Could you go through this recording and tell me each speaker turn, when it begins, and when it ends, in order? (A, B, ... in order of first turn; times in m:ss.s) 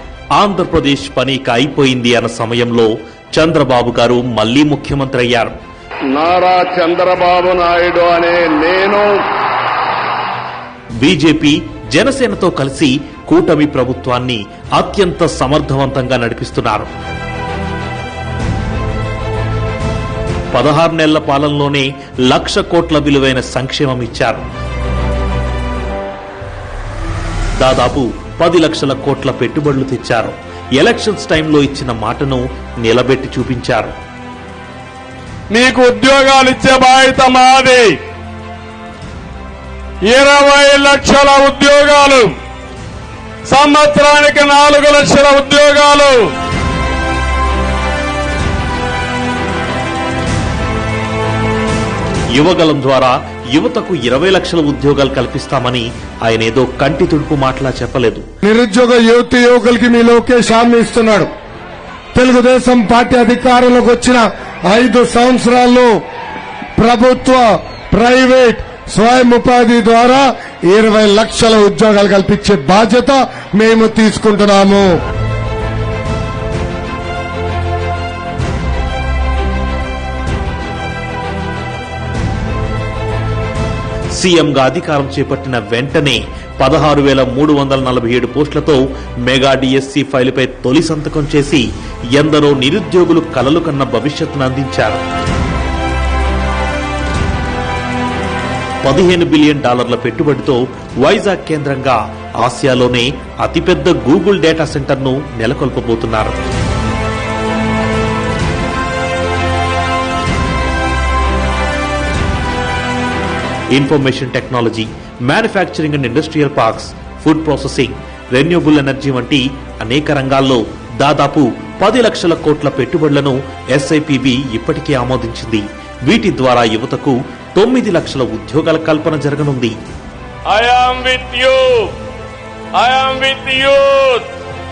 0:00.4-0:05.6 A
0:06.1-0:09.1 B
0:11.0-0:16.9 A
0:20.5-0:24.4 A
0:27.6-0:33.9 A
0:35.5-0:38.0 B
0:40.1-0:42.4 B
0:43.5-0:46.3 B
0:52.4-0:58.2 A
0:58.4-1:01.3 C
1:02.1-1:05.9 C
1:06.8-1:14.9 C
1:24.2-1:35.0 A
1:38.8-1:46.4 A
1:53.7-2:09.8 A
2:10.5-2:12.0 B
2:12.8-2:14.3 B